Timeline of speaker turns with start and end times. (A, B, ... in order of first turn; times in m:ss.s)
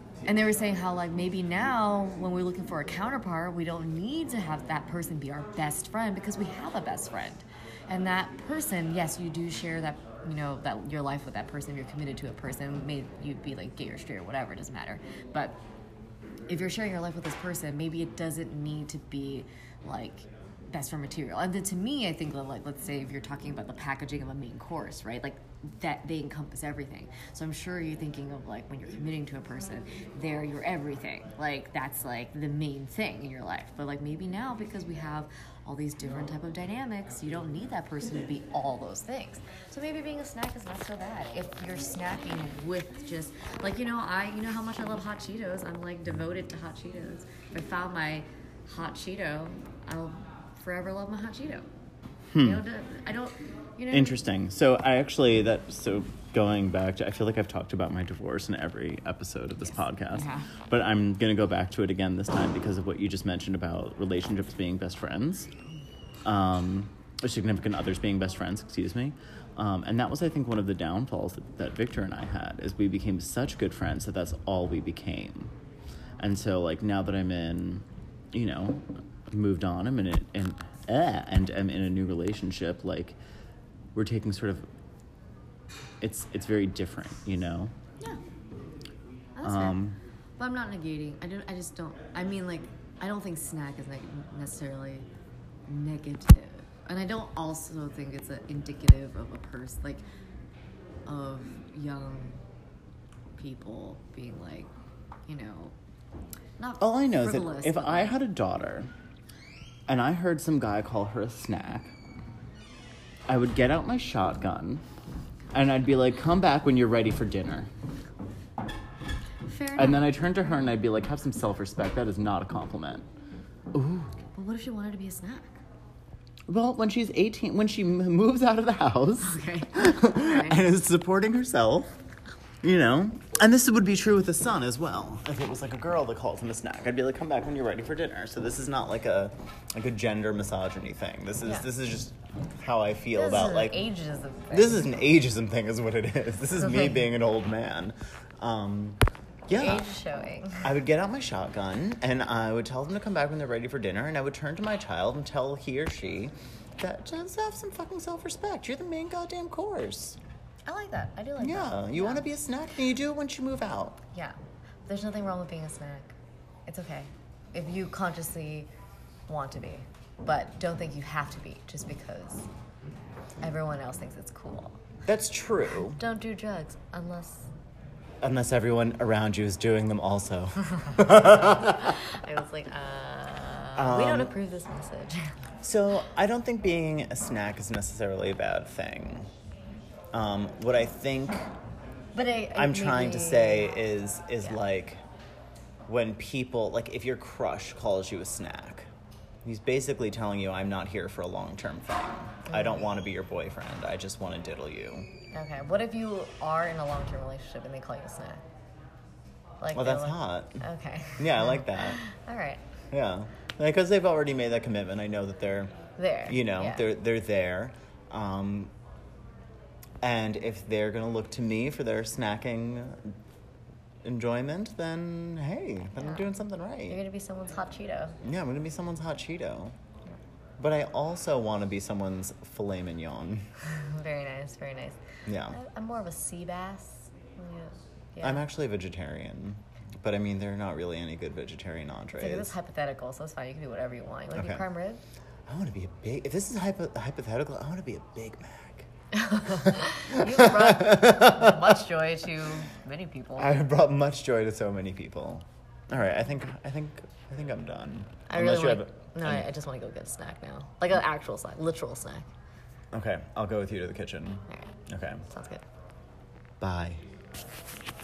0:00.3-0:15.6 A
0:16.5-0:51.7 A
0:52.3-0:52.6 B
0:52.4-0:54.2 A
0:53.9-1:05.5 B
0:59.6-1:00.5 A
1:06.2-1:15.5 B
1:16.2-1:23.2 B
1:24.0-1:24.7 B
1:26.0-1:27.7 B
1:29.4-1:29.8 A
1:29.4-1:30.0 B
1:30.4-1:35.1 A
1:35.7-1:40.0 A
1:41.1-1:42.4 A
1:43.4-1:44.7 A
1:45.3-1:45.8 A
1:46.6-1:48.1 A
1:46.8-1:48.9 B
1:49.9-1:51.9 B
1:53.3-1:54.8 B
1:55.5-1:57.7 B
1:59.5-2:00.1 A
1:59.8-2:03.1 B
2:03.7-2:04.2 B
2:04.3-2:05.6 A
2:06.5-2:11.9 B
2:09.2-2:10.7 A
2:12.6-2:23.8 B
2:21.4-2:21.7 A
2:23.1-2:25.0 A
2:24.5-2:29.9 B
2:29.5-2:30.7 A
2:30.6-2:40.2 B
2:40.7-2:42.3 A
2:41.4-2:44.0 B
2:44.1-2:46.1 A
2:46.7-2:48.7 A
2:49.3-2:52.5 A
2:53.4-2:54.8 A
2:55.1-2:56.0 B
2:55.8-2:57.5 A
2:58.2-3:02.0 B
3:01.5-3:05.3 A
3:03.8-3:04.3 B
3:05.6-3:09.3 B
3:10.1-3:11.5 B
3:12.1-3:13.8 A
3:12.5-3:15.0 B
3:15.9-3:18.9 B
3:19.4-3:25.1 B
3:22.5-3:22.9 A
3:25.3-3:28.4 A
3:29.6-3:32.6 A
3:29.7-3:30.6 B
3:31.2-3:32.0 B
3:32.9-3:35.7 B
3:36.0-3:36.8 A
3:36.3-3:38.7 B
3:40.0-3:43.2 B
3:44.0-3:47.0 B
3:46.0-3:46.3 A
3:46.9-3:48.2 A
3:48.2-3:49.8 B
3:50.6-3:53.4 B
3:53.6-3:58.4 A
3:55.3-3:55.6 B
3:58.2-4:02.6 B
4:02.2-4:05.0 A
4:04.4-4:04.7 B
4:05.5-4:08.9 B
4:09.1-4:13.5 A
4:09.4-4:11.8 B
4:13.4-4:19.5 B
4:18.3-4:22.3 A
4:22.9-4:25.2 B
4:25.3-4:25.6 A
4:26.6-4:27.0 B